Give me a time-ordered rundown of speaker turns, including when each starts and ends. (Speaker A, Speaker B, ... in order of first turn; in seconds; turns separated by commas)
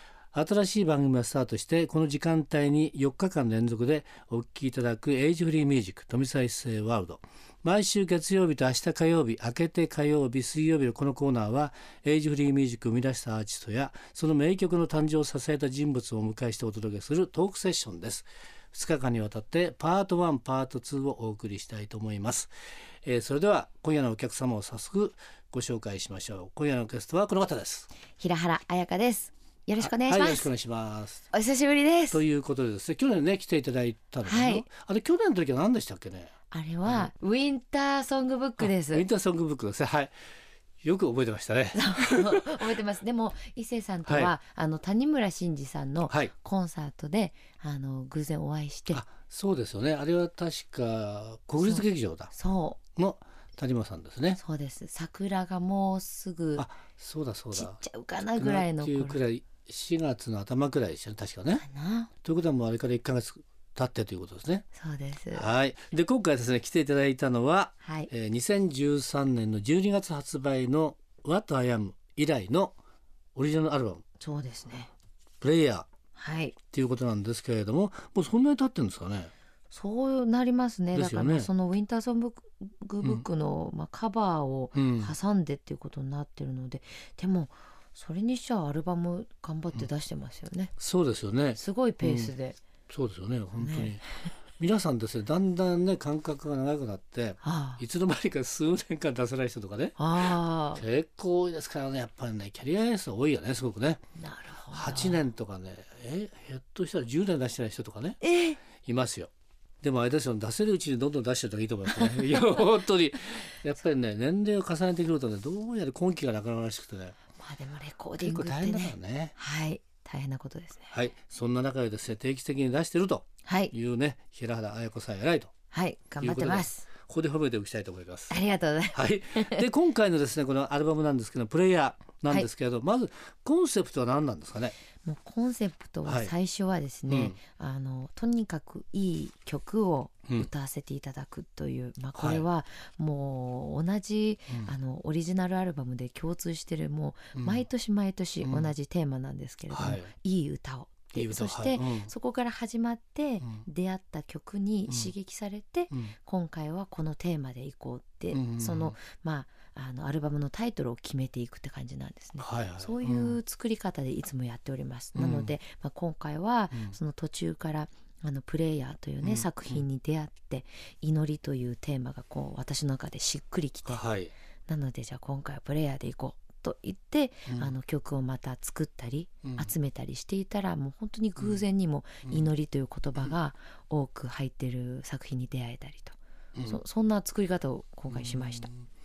Speaker A: 0.3-22.5, Speaker A: 23.0-27.9, Speaker B: 28.2-30.5, Speaker A: 29.8-31.3, Speaker B: 31.3-32.2, Speaker A: 32.1-36.3, Speaker B: 34.2-34.7, Speaker B: 36.5-39.1, Speaker A: 36.9-37.1, Speaker A: 38.6-40.1, Speaker A: 40.8-42.7, Speaker B: 41.7-49.0, Speaker A: 44.0-44.3, Speaker A: 48.9-52.3, Speaker B: 51.6-52.8, Speaker A: 53.0-54.4, Speaker B: 54.4-56.7, Speaker A: 56.6-61.6, Speaker B: 57.5-59.2, Speaker B: 61.5-62.1, Speaker A: 62.2-64.7, Speaker B: 64.8-65.5, Speaker A: 65.3-72.8, Speaker B: 67.8-68.1, Speaker A: 73.3-74.0, Speaker B: 74.2-74.9, Speaker A: 75.4-75.9, Speaker B: 76.2-76.5, Speaker A: 76.7-79.3, Speaker B: 79.7-90.7, Speaker A: 80.9-81.5, Speaker A: 84.7-85.2, Speaker A: 90.8-92.3, Speaker B: 91.6-92.6, Speaker A: 92.9-104.0, Speaker B: 93.6-94.0, Speaker B: 97.4-97.8, Speaker B: 100.0-100.8, Speaker B: 104.2-105.2, Speaker A: 104.7-108.2, Speaker B: 108.2-108.6, Speaker A: 108.8-117.2, Speaker B: 117.4-121.0, Speaker A: 118.2-119.4, Speaker A: 120.9-125.5, Speaker B: 123.5-123.7, Speaker B: 125.7-126.9, Speaker A: 126.2-134.8, Speaker B: 128.3-129.7, Speaker B: 135.0-174.0, Speaker A: 136.1-136.3, Speaker A: 137.1-137.4, Speaker A: 142.2-142.4, Speaker A: 147.3-147.6, Speaker A: 148.4-148.7, Speaker A: 149.7-150.1, Speaker A: 151.1-152.1, Speaker A: 158.3-159.0, Speaker A: 162.4-163.4, Speaker A: 165.1-165.5, Speaker A: 169.2-169.8, Speaker A: 173.9-174.3, Speaker B: 174.7-188.7, Speaker A: 177.5-177.7, Speaker A: 179.4-179.7, Speaker A: 181.4-181.6, Speaker A: 186.6-186.8, Speaker A: 188.1-188.9